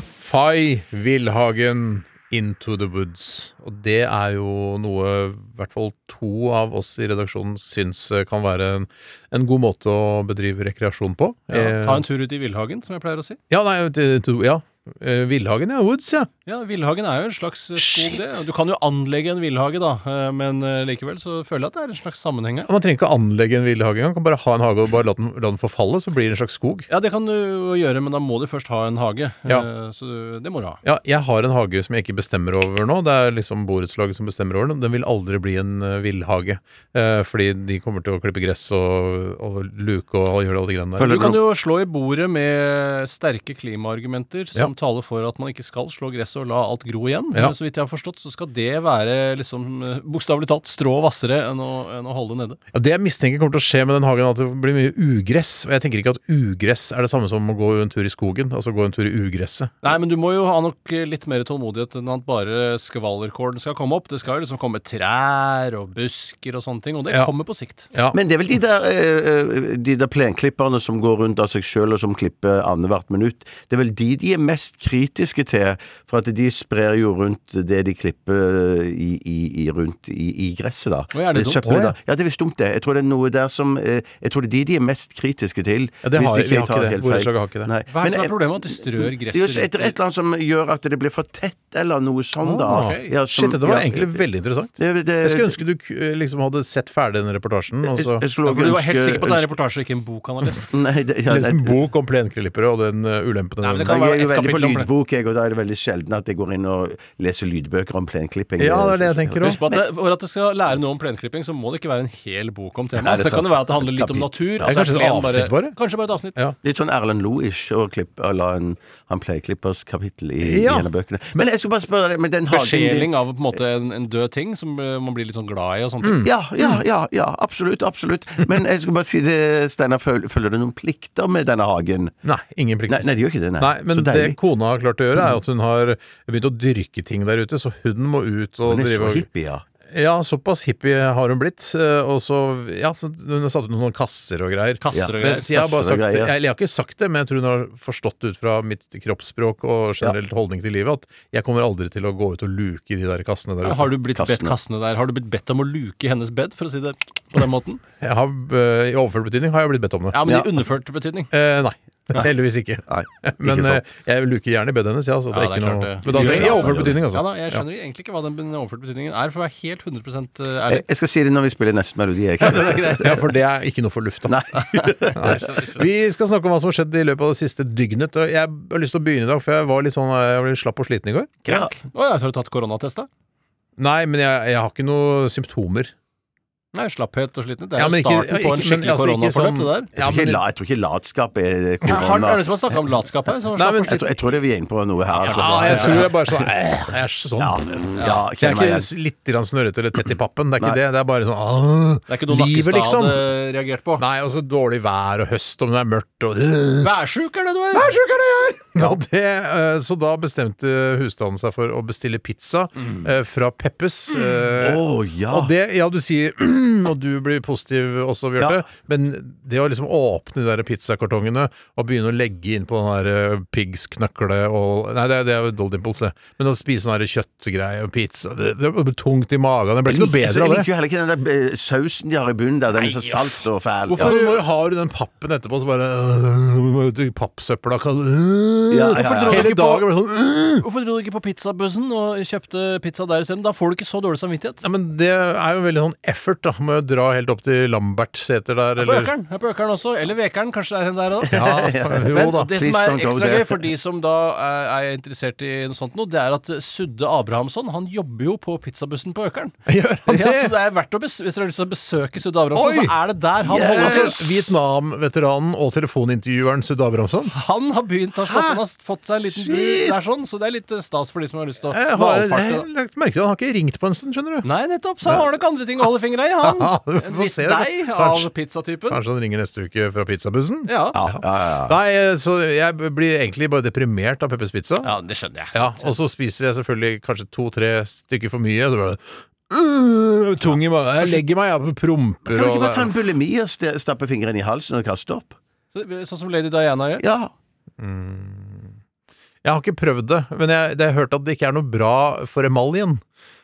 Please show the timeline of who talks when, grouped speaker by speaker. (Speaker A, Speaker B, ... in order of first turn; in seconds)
Speaker A: 0.2-12.1, 13.5-16.3, 17.8-18.4, 22.7-26.9, 30.8-41.3, 52.7-59.8, 81.6-82.0, 86.0-87.7, 92.4-98.2, 101.3-104.0, 108.6-109.6, 114.6-115.8, 120.4-121.4, 126.0-126.8, 132.2-139.3, 139.9-153.9, 158.0-160.2, 161.3-167.6, 173.0-174.4, 175.1-181.4, 183.8-185.9, 187.8-190.4, 193.6-194.0, 195.3-203.3, 204.0-206.9, 207.7-230.7, 234.0-240.7, 244.6-249.1, 251.3-252.5, 259.7-260.6, 262.5-263.0, 263.5-267.3, 268.3-268.6, 271.7-274.5, 276.4-278.3, 278.9-284.9, 285.5-293.0, 297.8-298.8, 299.4-303.0
Speaker B: 11.5-13.4, 16.5-22.7, 26.9-30.8, 41.0-52.6, 59.8-67.9, 81.1-81.7, 87.9-90.0, 92.7-93.1, 98.4-100.7, 103.6-104.9, 109.4-116.4, 122.5-126.3, 144.8-145.5, 153.6-157.8, 160.1-161.3, 165.3-170.8, 172.4-173.2, 175.4-175.8, 181.5-183.1, 186.7-189.9, 191.8-194.1, 195.1-196.1, 198.0-198.2, 202.1-204.0, 206.8-208.0, 233.9-234.4, 238.9-239.9, 240.6-244.6, 248.8-251.4, 252.1-259.6, 260.1-264.2, 267.3-272.7, 274.4-279.0, 280.7-281.0, 284.8-285.9, 295.7-297.0
Speaker C: 41.0-41.4, 68.1-94.2, 94.8-95.6, 97.8-99.5, 100.7-101.8, 103.8-109.8, 113.0-114.7, 116.6-123.1, 126.2-132.2, 132.9-134.4, 138.7-139.6, 144.9-146.3, 154.2-154.6, 162.9-163.8, 166.1-167.0, 170.7-173.2, 174.3-175.5, 181.5-181.7, 190.0-192.5, 193.8-196.2, 197.4-198.9, 214.2-215.5, 218.4-218.6, 229.9-234.2, 238.7-239.6, 251.3-253.7, 263.4-264.5, 269.4-269.9, 280.9-281.8, 292.3-295.4, 297.0-297.3